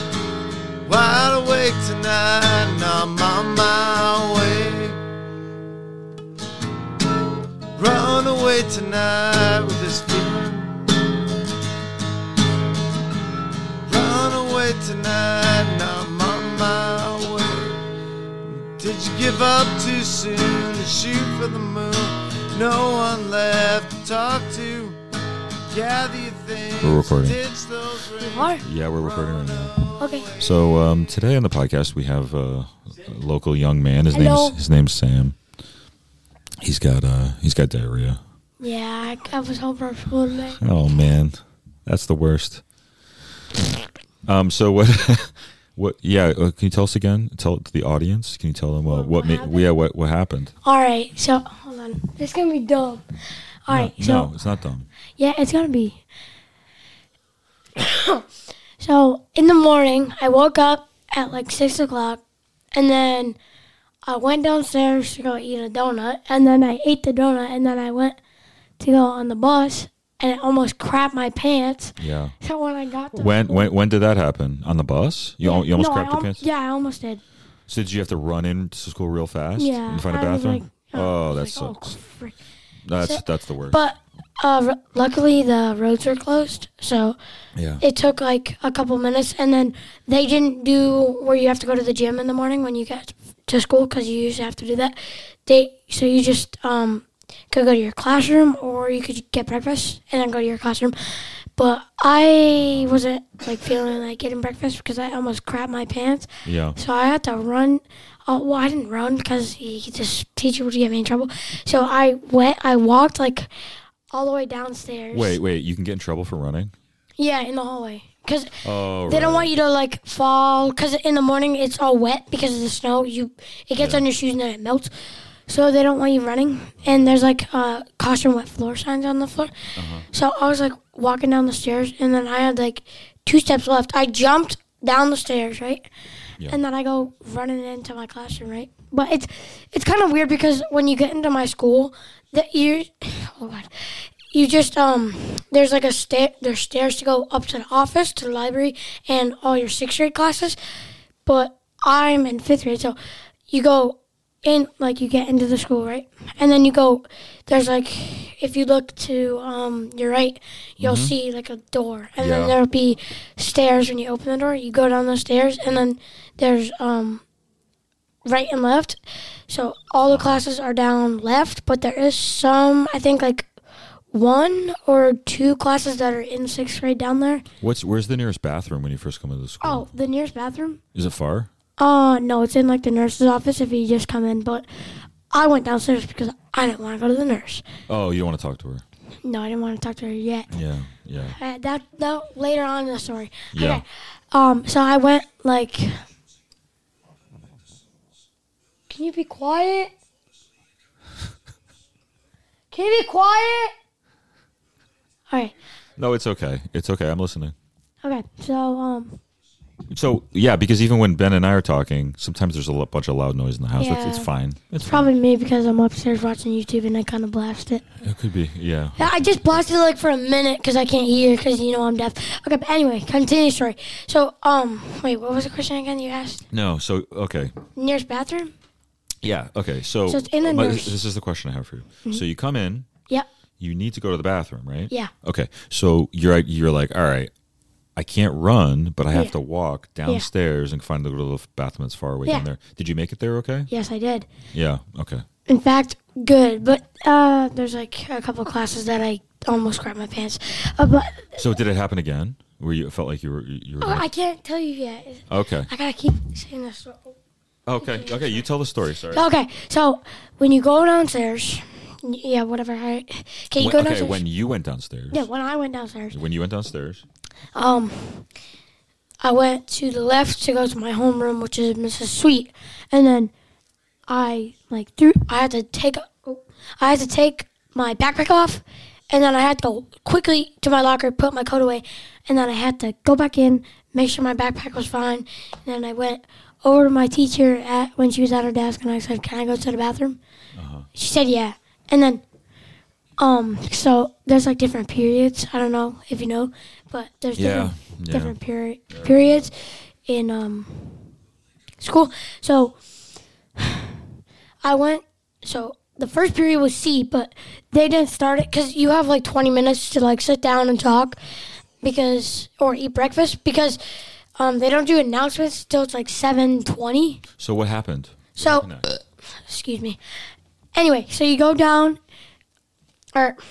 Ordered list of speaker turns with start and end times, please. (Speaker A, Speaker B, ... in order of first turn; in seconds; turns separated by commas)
Speaker A: 0.9-5.0, Speaker A: 7.8-11.2, Speaker A: 13.9-17.8, Speaker A: 18.5-25.0, Speaker A: 25.7-30.6, Speaker B: 26.8-27.4, Speaker C: 28.2-28.6, Speaker B: 28.6-29.9, Speaker C: 30.0-30.3, Speaker B: 30.4-35.4, Speaker C: 34.1-34.6, Speaker B: 36.6-38.2, Speaker C: 38.6-40.6, Speaker B: 40.6-42.6, Speaker B: 44.2-50.5, Speaker C: 48.9-49.7, Speaker C: 50.6-53.0, Speaker C: 53.6-54.3, Speaker B: 53.7-54.9, Speaker C: 55.2-56.0, Speaker C: 57.8-58.2, Speaker C: 58.8-62.2, Speaker C: 62.7-63.4, Speaker C: 64.0-68.2, Speaker C: 68.8-73.7, Speaker B: 72.0-72.3, Speaker B: 73.1-76.4, Speaker C: 75.4-77.2, Speaker B: 77.7-81.9, Speaker C: 79.6-82.3, Speaker B: 82.8-83.8, Speaker C: 83.0-87.2, Speaker B: 87.5-87.8, Speaker C: 87.8-113.5, Speaker B: 106.4-106.8, Speaker C: 114.1-115.4, Speaker B: 115.1-116.7, Speaker C: 117.2-124.9, Speaker B: 118.6-119.5, Speaker B: 123.8-124.0, Speaker C: 125.5-129.5, Speaker B: 129.7-130.1, Speaker C: 130.1-135.9, Speaker C: 136.5-150.6, Speaker C: 151.2-153.0, Speaker C: 153.5-167.2, Speaker B: 160.8-161.1, Speaker B: 162.2-162.6, Speaker C: 168.2-173.5, Speaker B: 170.1-170.4, Speaker C: 174.1-177.4, Speaker B: 177.6-179.9, Speaker C: 179.6-180.8, Speaker B: 180.9-181.5, Speaker C: 181.8-184.7, Speaker C: 185.3-187.6, Speaker B: 187.9-188.8, Speaker C: 189.2-190.5, Speaker B: 190.5-191.4, Speaker C: 191.3-196.0, Speaker B: 193.5-193.8, Speaker C: 198.9-199.9, Speaker C: 202.7-203.7, Speaker B: 206.0-207.5, Speaker C: 208.0-209.2, Speaker B: 209.9-215.1, Speaker C: 213.8-214.3, Speaker C: 214.8-217.8, Speaker B: 218.0-219.6, Speaker C: 219.0-226.5, Speaker B: 226.5-227.5, Speaker C: 227.8-228.5, Speaker B: 229.2-232.9, Speaker C: 230.1-231.0, Speaker B: 233.6-237.3, Speaker B: 237.9-243.7, Speaker C: 243.7-244.3, Speaker B: 244.5-245.2, Speaker C: 245.5-251.5, Speaker B: 251.4-254.1, Speaker C: 253.8-257.1, Speaker B: 255.3-255.7, Speaker B: 257.6-259.3, Speaker C: 257.8-258.4, Speaker C: 259.1-264.2, Speaker B: 263.6-265.2, Speaker C: 265.1-266.2, Speaker B: 266.1-267.0, Speaker C: 267.5-268.2, Speaker C: 269.2-273.3, Speaker C: 274.1-290.2, Speaker B: 290.5-290.9, Speaker C: 290.9-292.2, Speaker C: 293.2-301.1, Speaker B: 297.4-298.4, Speaker C: 301.8-302.8, Speaker C: 303.6-304.0, Speaker C: 304.6-311.2, Speaker C: 311.8-313.8, Speaker C: 314.4-317.2, Speaker B: 317.4-318.9, Speaker C: 318.4-318.7, Speaker C: 319.4-320.0, Speaker C: 320.7-322.0, Speaker C: 323.1-323.4